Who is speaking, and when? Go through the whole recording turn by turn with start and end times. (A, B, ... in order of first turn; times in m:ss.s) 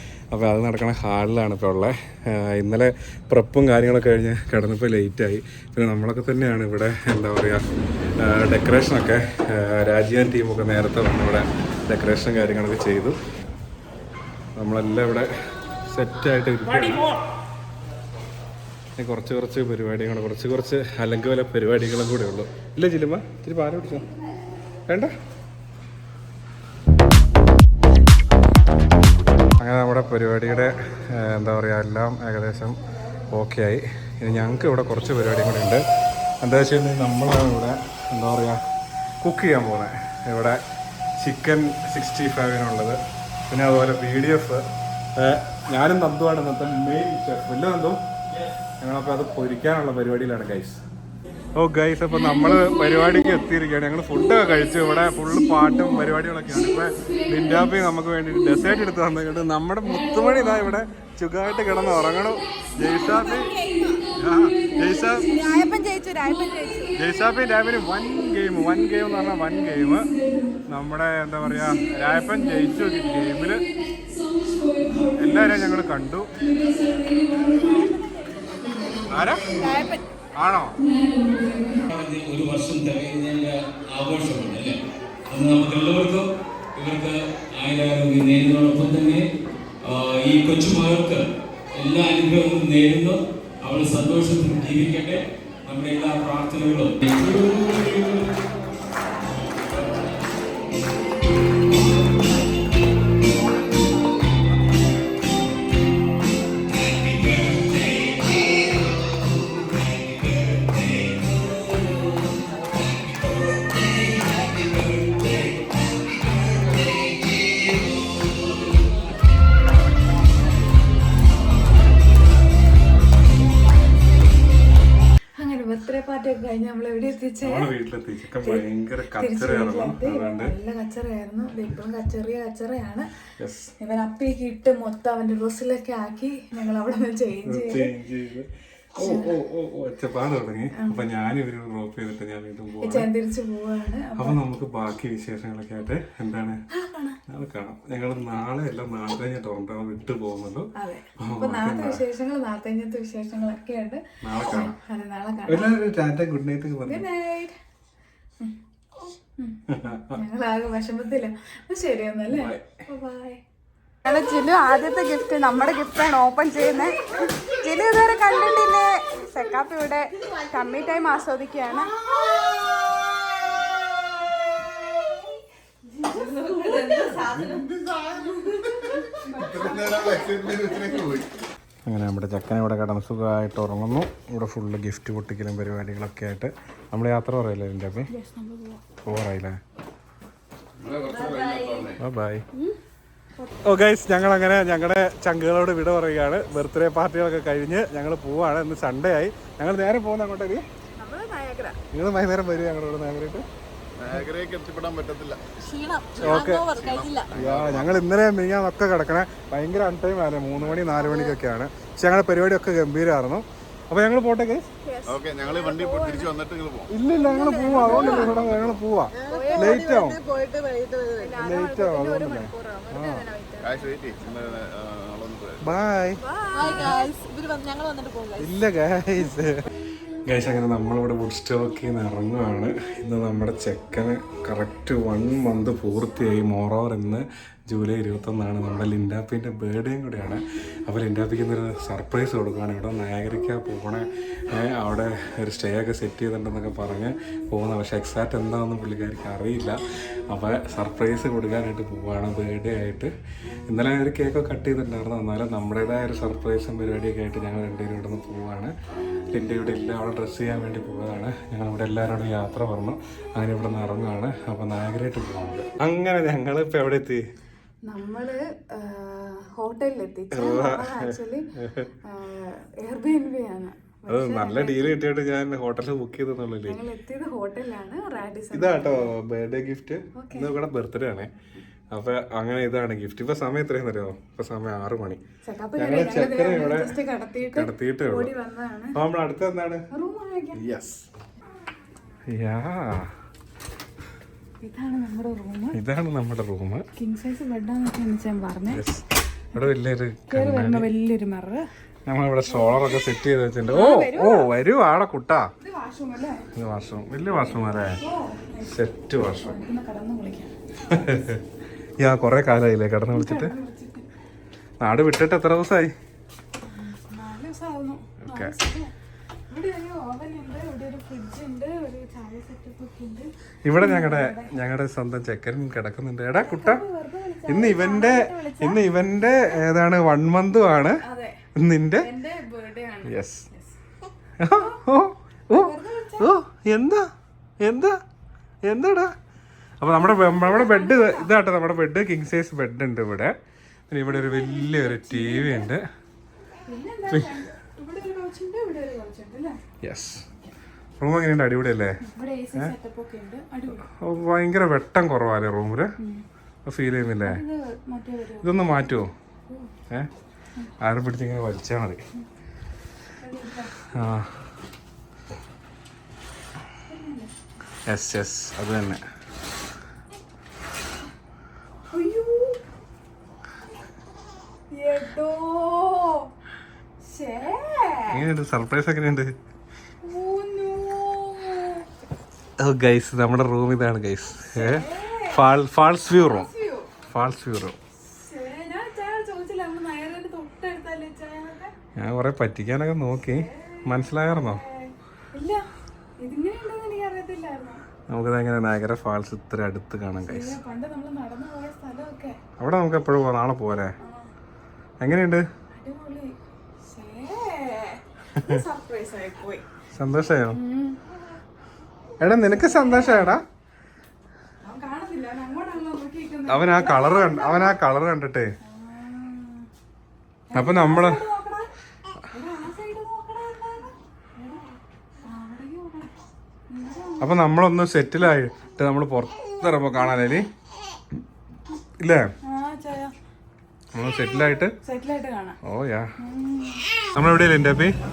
0:00.3-0:07.6 A
0:08.2-0:13.2 A
0:14.6-0:15.3 A
0:15.9-0:17.0 A
0:19.0-0:24.1 A
0:24.9-0:25.1 A
0:29.6-0:32.8 A
0:33.3-0:35.8 A
0:36.4-0:38.6 A
0:39.2-0:40.6 A
0:41.2-0:43.0 A
0:43.5-0:44.6 A
0:45.2-0:48.0 A
0:48.8-0:50.8 A
0:51.6-1:03.6 A
0:52.2-0:53.4 B
0:54.6-0:57.7 B
0:58.4-0:58.7 B
0:59.8-1:00.7 B
1:02.8-1:07.0 B
1:04.1-1:05.3 A
1:05.3-1:06.7 C
1:06.9-1:10.1 A
1:08.4-1:10.6 B
1:10.7-1:13.6 A
1:11.4-1:15.8 B
1:15.2-1:16.3 A
1:16.4-1:18.0 B
1:19.1-1:19.6 A
1:19.6-1:19.9 B
1:20.4-1:20.8 A
1:20.8-1:21.9 B
1:21.9-1:26.2 C
1:26.8-1:29.2 C
1:29.8-1:31.2 C
1:31.8-1:38.2 C
2:05.4-2:07.7 B
2:07.4-2:10.5 A
2:08.4-2:13.1 B
2:13.4-2:13.7 A
2:13.8-2:17.9 B
2:17.4-2:23.1 A
2:19.0-2:19.3 B
2:20.7-2:21.0 B
2:22.8-2:24.4 B
2:24.2-2:26.6 A
2:26.7-2:27.2 B
2:27.3-2:32.0 A
2:30.8-2:35.8 B
2:34.2-2:34.8 A
2:35.5-2:37.0 A
2:36.8-2:37.5 B
2:39.4-2:43.4 B
2:39.7-2:40.2 A
2:42.3-2:42.8 A
2:44.0-2:51.9 B
2:55.9-2:57.6 B
2:57.2-3:01.3 D
2:58.2-3:00.5 B
3:01.8-3:08.1 A
3:08.1-3:08.8 B
3:09.0-3:09.6 A
3:10.8-3:12.0 D
3:11.2-3:11.8 C
3:11.9-3:12.4 A
3:13.6-3:20.6 A
3:21.0-3:21.8 B
3:21.9-3:23.4 A
3:24.0-3:25.4 D
3:25.6-3:27.3 C
3:26.2-3:28.0 D
3:26.2-3:26.7 A
3:27.3-3:34.6 A
3:30.8-3:31.3 C
3:34.8-3:36.3 B
3:35.0-3:36.9 D
3:36.9-3:40.2 A
3:37.2-3:38.4 B
3:37.7-3:38.3 C
3:38.1-3:38.8 D
3:39.1-3:41.3 C
3:39.2-3:39.9 B
3:41.2-3:44.6 B
3:41.4-3:43.2 A
3:43.6-3:45.6 D
3:45.6-3:46.2 A
3:46.2-3:47.0 B
3:46.5-3:48.5 C
3:48.4-3:49.7 A
3:50.2-4:13.1 A
4:13.7-4:18.7 A
4:19.3-4:27.2 A
4:27.8-4:31.5 B
4:30.3-4:31.9 A
4:32.0-4:35.0 B
4:34.1-4:36.8 A
4:36.6-4:39.1 B
4:38.5-4:41.3 A
4:40.2-4:40.5 B
4:41.9-4:45.2 A
4:45.4-4:49.0 B
4:45.8-4:48.3 A
4:48.9-4:49.8 A
4:49.9-4:50.6 B
4:50.5-4:51.0 A
4:52.3-4:53.1 A
4:54.6-4:55.8 B
4:55.7-4:56.8 A
4:57.0-4:58.8 B
4:58.7-5:00.9 A
5:00.3-5:01.7 B
5:02.1-5:05.5 A
5:02.5-5:03.0 B
5:03.7-5:04.5 B
5:05.6-5:06.5 B
5:06.5-5:08.0 A
5:07.4-5:08.7 B
5:08.6-5:09.6 A
5:09.4-5:10.5 B
5:10.9-5:11.4 A
5:12.0-5:13.5 A
5:13.1-5:14.0 B
5:14.8-5:15.9 A
5:16.6-5:18.9 B
5:18.2-5:18.5 A
5:19.5-5:24.5 B
5:23.6-5:26.8 A
5:26.4-5:28.8 B
5:27.5-5:31.0 A
5:31.0-5:31.4 B
5:31.5-5:32.1 A
5:32.0-5:33.8 B
5:33.0-5:33.4 A
5:34.4-5:37.1 A
5:34.5-5:34.8 B
5:35.5-5:36.3 B
5:37.6-5:38.0 A
5:38.6-5:39.1 A
5:39.8-5:43.3 A
5:40.0-5:41.3 B
5:43.9-5:45.8 A
5:44.1-5:45.7 B
5:46.7-5:49.6 B
5:47.1-5:47.3 A
5:49.8-5:50.2 A
5:51.0-5:52.0 A
5:52.0-5:53.8 B
5:53.9-5:55.9 A
5:56.6-5:57.4 A
5:57.2-5:58.5 B
5:58.4-5:59.1 A
5:59.5-5:59.7 B
6:00.8-6:02.0 A
6:03.2-6:04.0 B
6:03.9-6:04.3 A
6:06.9-6:07.3 B
6:07.9-6:09.0 A
6:11.9-6:12.6 B
6:14.7-6:16.3 B
6:17.0-6:18.2 B
6:18.1-6:19.3 A
6:20.0-6:21.9 B
6:22.6-6:26.5 A
6:24.4-6:25.4 B
6:26.1-6:26.9 B
6:27.1-6:27.8 A
6:28.1-6:31.7 B
6:32.0-6:34.6 A
6:33.2-6:35.6 B
6:36.2-6:37.8 B
6:38.1-6:40.6 A
6:40.2-6:42.4 B
6:42.6-6:43.9 A
6:44.0-6:44.3 B
6:45.0-6:45.4 A
6:45.7-6:46.3 B
6:46.9-6:49.6 B
6:49.9-6:50.6 A
6:50.5-6:51.0 B
6:52.2-6:53.4 A
6:52.2-6:53.4 B
6:54.6-6:57.8 B
6:56.5-6:58.5 A
6:58.6-6:59.7 B
7:00.5-7:01.7 B
7:00.5-7:01.2 A
7:02.3-7:06.1 B
7:06.7-7:07.3 B
7:07.2-7:10.4 A
7:12.0-7:12.3 A
7:12.4-7:13.1 B
7:13.9-7:14.7 A
7:14.1-7:15.6 B
7:15.6-7:16.1 A
7:16.2-7:16.9 B
7:17.1-7:17.9 A